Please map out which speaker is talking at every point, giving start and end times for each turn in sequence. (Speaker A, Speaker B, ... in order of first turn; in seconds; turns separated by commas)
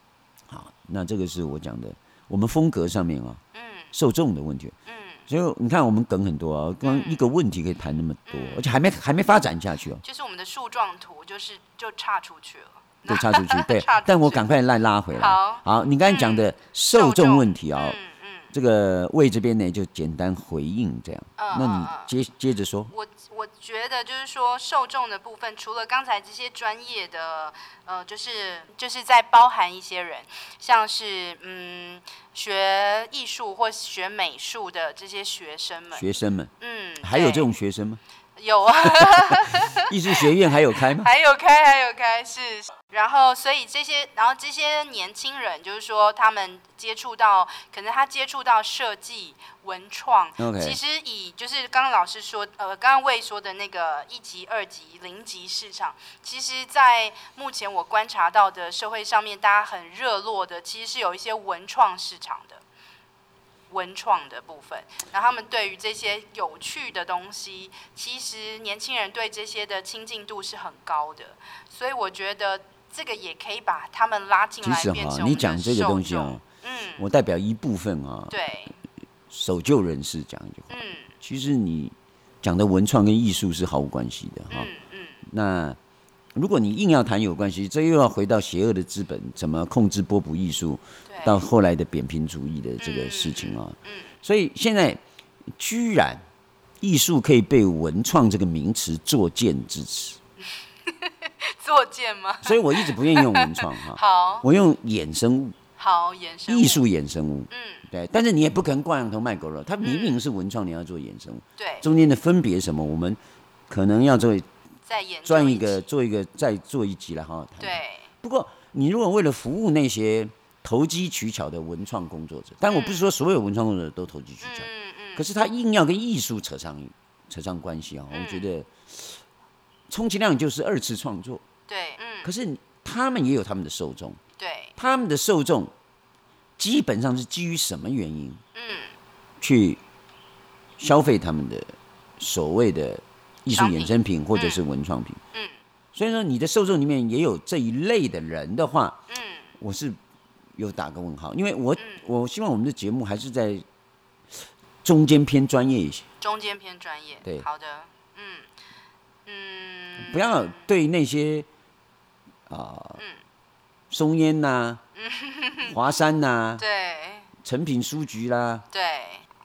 Speaker A: 0.5-3.4, Speaker B: 3.5-3.9, Speaker A: 3.9-4.8, Speaker B: 4.9-5.3, Speaker A: 5.3-10.0, Speaker B: 6.8-7.2, Speaker B: 8.3-8.6, Speaker B: 10.0-14.5, Speaker A: 13.1-18.0, Speaker B: 15.1-18.5, Speaker A: 18.5-22.9, Speaker B: 21.4-22.1, Speaker B: 22.9-36.1, Speaker A: 35.9-38.0, Speaker B: 36.6-37.5, Speaker B: 38.4-62.6, Speaker A: 39.1-41.1, Speaker A: 50.4-50.8, Speaker B: 63.7-77.0, Speaker A: 74.6-76.4, Speaker A: 77.0-78.4, Speaker B: 78.3-78.8, Speaker A: 79.3-84.7, Speaker B: 80.7-81.1, Speaker B: 84.5-85.2, Speaker A: 85.2-85.8, Speaker A: 86.4-95.0, Speaker B: 91.1-91.4, Speaker B: 92.8-94.1, Speaker A: 95.6-96.2, Speaker A: 96.8-100.2, Speaker B: 100.5-104.5, Speaker A: 102.4-105.6, Speaker B: 105.8-106.8, Speaker A: 106.5-114.5, Speaker B: 107.5-107.9, Speaker B: 109.8-110.2, Speaker B: 111.6-111.9, Speaker B: 114.9-115.8, Speaker A: 115.2-129.2, Speaker B: 117.6-118.1, Speaker B: 122.7-123.0, Speaker B: 124.4-125.2, Speaker B: 128.1-128.5, Speaker A: 129.9-131.4, Speaker B: 131.7-132.3, Speaker A: 132.2-134.2, Speaker B: 134.4-134.7, Speaker A: 134.8-135.7, Speaker A: 136.6-138.4, Speaker B: 138.5-139.0, Speaker A: 139.4-139.8, Speaker A: 140.8-145.2, Speaker B: 143.5-144.6, Speaker B: 145.3-145.6, Speaker A: 145.9-149.0, Speaker B: 149.1-149.5, Speaker A: 149.6-150.0, Speaker A: 150.6-153.7, Speaker B: 151.8-152.1, Speaker A: 154.8-156.1, Speaker B: 156.2-158.5, Speaker B: 159.3-160.7, Speaker A: 160.0-161.5, Speaker A: 162.5-163.0, Speaker A: 163.9-164.8, Speaker B: 165.0-165.8, Speaker A: 165.7-166.6, Speaker B: 166.6-167.3, Speaker A: 167.4-168.7, Speaker B: 168.7-169.3